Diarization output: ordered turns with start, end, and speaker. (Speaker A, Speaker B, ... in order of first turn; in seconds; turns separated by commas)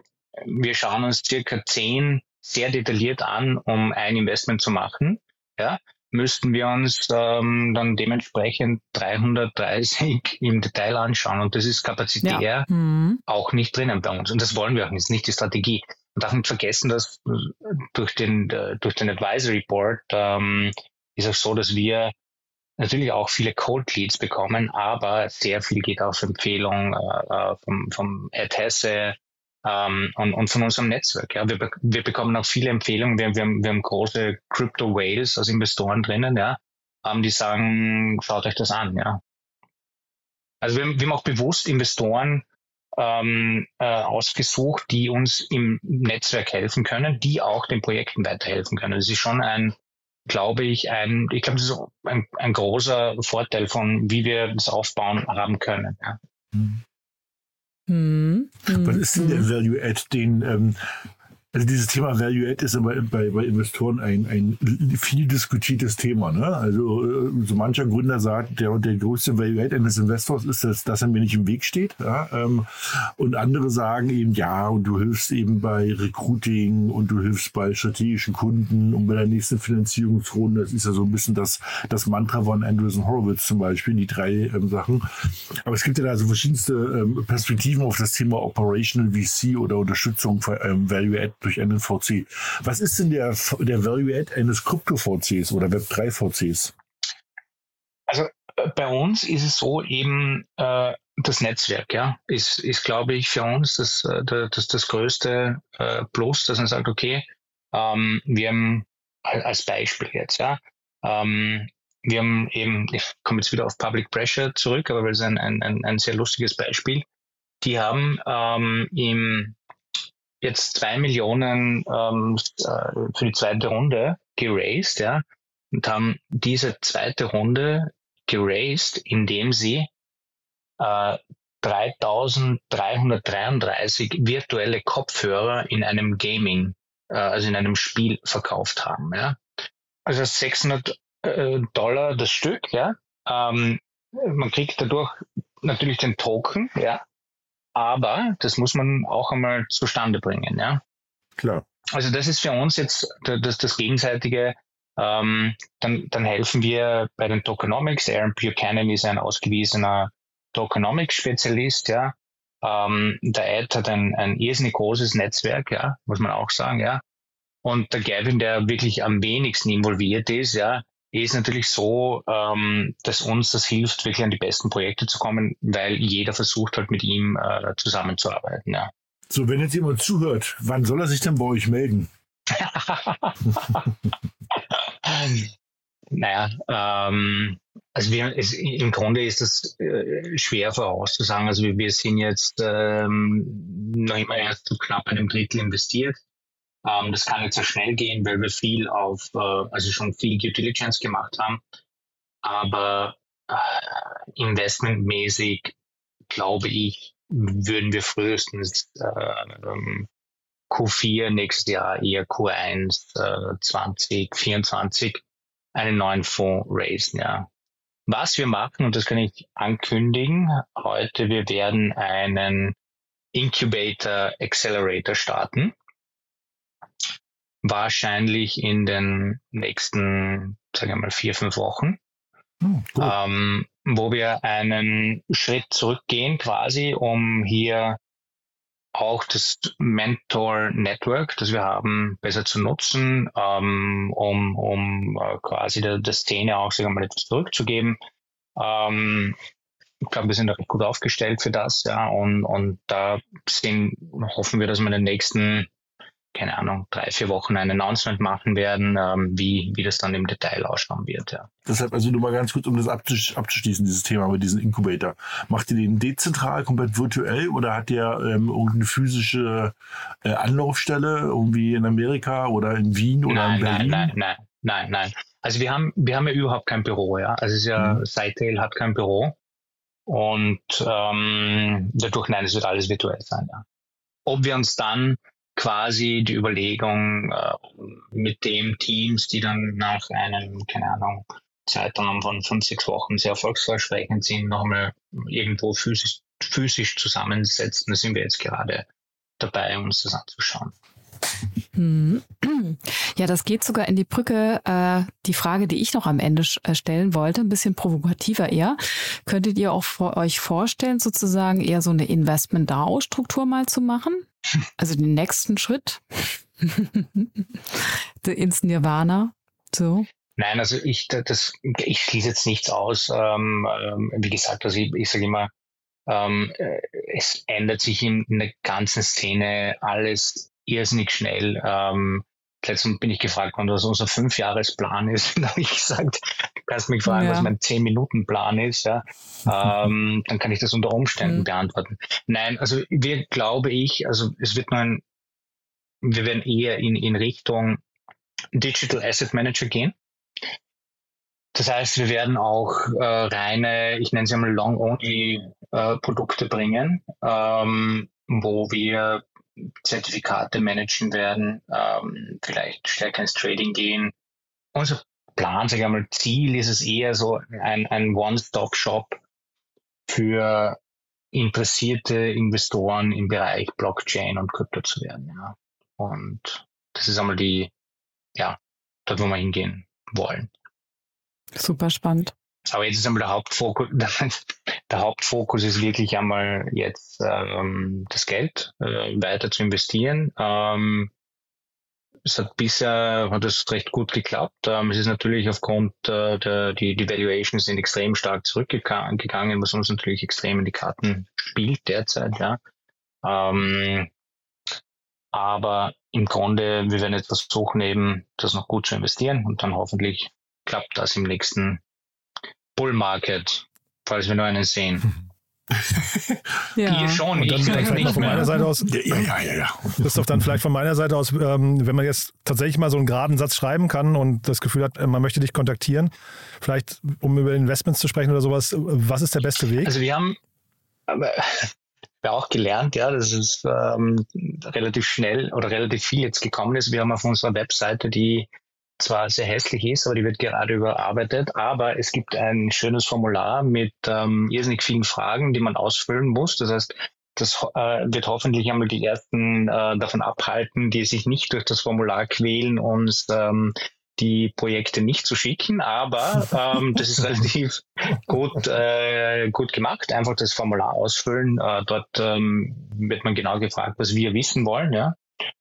Speaker A: 0.4-12.7, Speaker B: 12.2-13.2, Speaker A: 13.3-22.1, Speaker A: 22.8-39.2, Speaker A: 40.6-42.5, Speaker A: 43.0-49.8, Speaker A: 50.3-56.2, Speaker C: 56.5-56.8, Speaker B: 57.9-59.5, Speaker C: 58.7-60.8, Speaker C: 61.5-96.7, Speaker A: 98.1-117.0, Speaker A: 117.6-119.5, Speaker A: 120.4-129.9, Speaker A: 130.8-139.4, Speaker A: 140.1-147.0, Speaker A: 147.8-150.8, Speaker C: 151.4-151.7, Speaker A: 151.9-167.0, Speaker A: 167.6-178.9, Speaker C: 179.3-182.1, Speaker A: 182.5-183.8, Speaker A: 184.7-185.5, Speaker A: 186.1-196.2, Speaker A: 196.8-201.6, Speaker A: 202.4-205.7, Speaker A: 206.3-210.1, Speaker A: 210.7-215.2, Speaker A: 215.8-217.5, Speaker A: 218.1-222.8, Speaker A: 223.3-225.7, Speaker A: 227.6-232.0, Speaker C: 232.6-233.2, Speaker A: 233.0-238.0, Speaker A: 238.9-248.0, Speaker A: 248.6-249.4, Speaker A: 250.0-255.7, Speaker A: 256.3-261.5, Speaker C: 261.7-274.1, Speaker A: 273.3-279.4, Speaker C: 277.8-278.0, Speaker A: 280.1-283.6, Speaker A: 284.3-298.9, Speaker A: 299.4-300.7, Speaker B: 301.8-314.3, Speaker B: 314.8-320.1, Speaker A: 320.4-325.5, Speaker A: 326.1-345.0, Speaker B: 337.1-337.5, Speaker A: 346.0-347.8, Speaker A: 348.5-349.9, Speaker A: 351.5-364.1, Speaker A: 364.7-369.2, Speaker A: 370.1-370.8, Speaker A: 371.3-377.7, Speaker A: 378.4-380.5, Speaker B: 381.6-382.3, Speaker A: 382.7-391.1, Speaker A: 392.3-402.6, Speaker A: 403.2-404.1, Speaker A: 405.3-411.8, Speaker A: 412.8-415.1, Speaker C: 415.8-416.4, Speaker B: 416.8-418.5, Speaker A: 416.8-418.6, Speaker D: 417.4-419.3, Speaker C: 418.8-420.6, Speaker D: 420.0-429.9, Speaker A: 429.8-430.4, Speaker A: 431.1-431.7, Speaker A: 432.2-465.2